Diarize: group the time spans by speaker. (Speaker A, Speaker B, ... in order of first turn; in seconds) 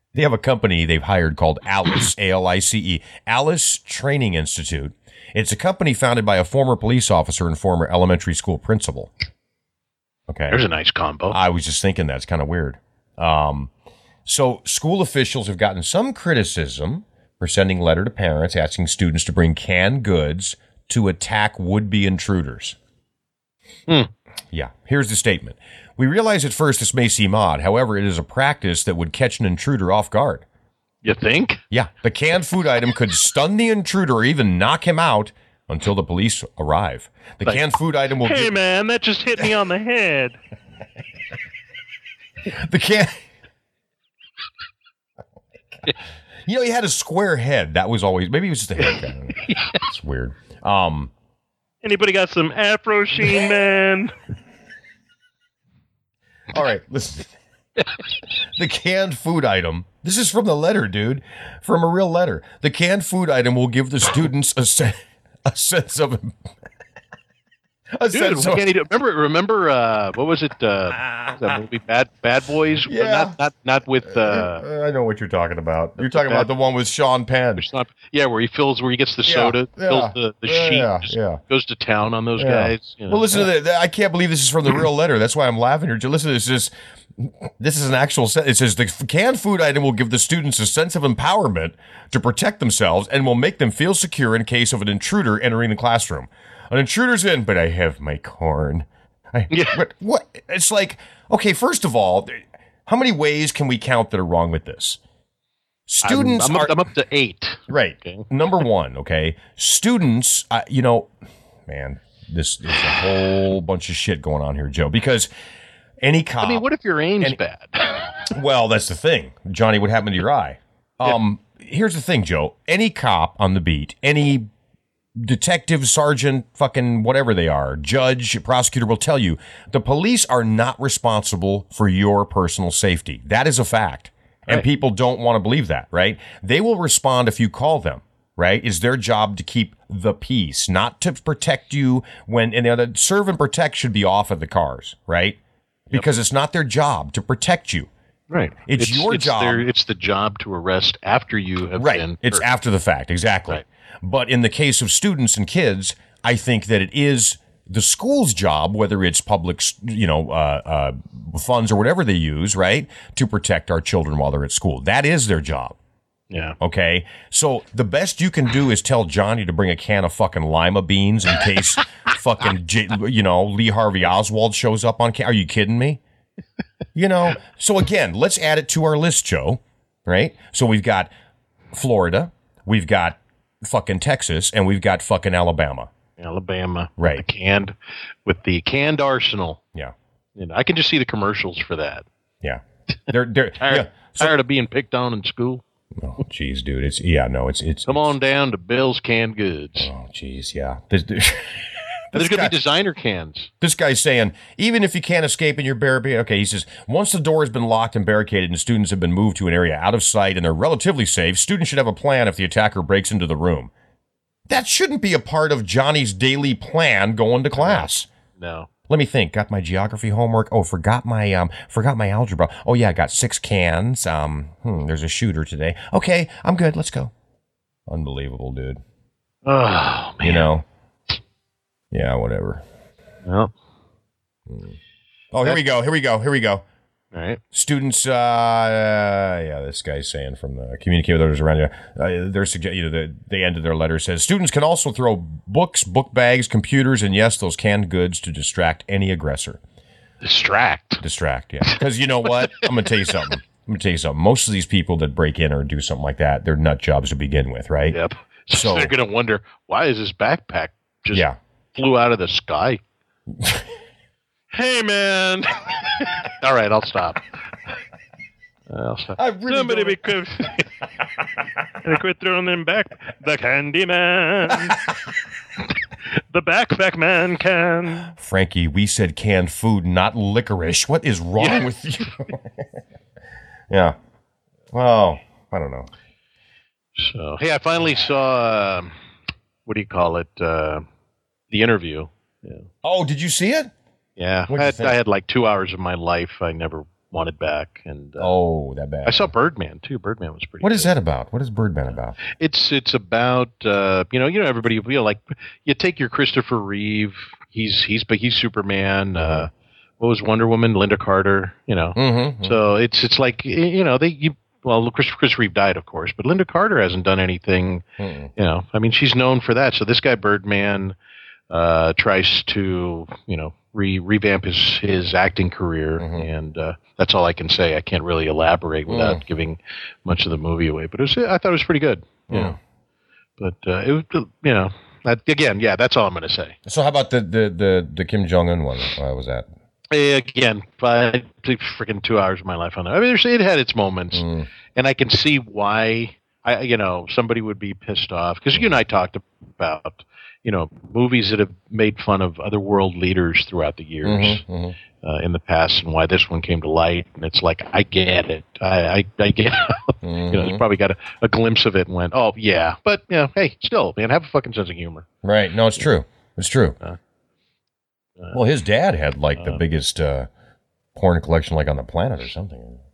Speaker A: 0.1-9.1, 10.3-10.6, 11.3-13.7, 14.3-22.8, 24.5-30.4, 31.7-38.6, 42.5-43.1, 46.5-51.1, 56.5-57.3, 58.6-66.4, 68.0-68.7, 71.0-71.4, 72.9-73.3, 74.1-77.7, 79.2-81.4, 82.4-105.0, 105.9-106.8, 107.7-111.1, 111.7-115.3, 116.0-116.7, 118.3-124.5, 125.2-145.4, 145.9-147.9, 148.7-149.7, 151.8-165.8, 166.6-176.0, 176.9-181.1, 181.7-185.9, 187.0-187.2, 192.4-194.3, 196.0-198.2, 199.8-202.6, 203.6-213.7, 214.5-218.1, 218.9-227.1, 227.9-228.8, 230.2-230.7, 231.9-232.6, 234.5-234.8, 235.3-236.7, 237.5-249.6, 251.0-258.0, 258.5-258.9, 261.1-261.4, 269.2-270.0, 278.1-282.6, 283.7-284.0, 284.7-285.9, 292.8-293.7, 294.5-295.0, 298.2-299.3, 300.6-302.2, 309.2-309.5, 311.9-312.6, 318.0-318.3, 326.0-326.3, 328.9-329.2, 332.3-332.6, 336.7-339.5, 344.1-344.5, 354.0-354.8, 360.0-360.6, 365.2-366.8, 368.3-370.3, 371.0-372.8
Speaker B: 10.5-11.4, 31.0-31.6, 68.1-74.7, 76.0-76.5, 77.6-83.5, 99.5-99.8, 106.0-108.3, 116.4-118.2, 148.3-152.4, 166.3-166.6, 186.2-189.6, 190.4-192.1, 193.6-195.6, 197.9-199.9, 202.1-203.5, 217.6-218.7, 229.4-230.5, 233.2-233.5, 237.1-237.4, 250.2-251.0, 257.9-262.8, 266.3-267.2, 268.7-269.2, 287.0-288.9, 289.7-290.8, 291.5-292.7, 294.2-298.3, 299.1-300.9, 302.3-317.8, 318.4-321.0, 321.5-332.6, 333.4-336.6, 339.9-354.4, 355.0-365.1
Speaker C: 38.2-40.4, 51.8-54.1, 264.5-265.5, 269.5-270.3, 271.8-274.8, 276.3-278.1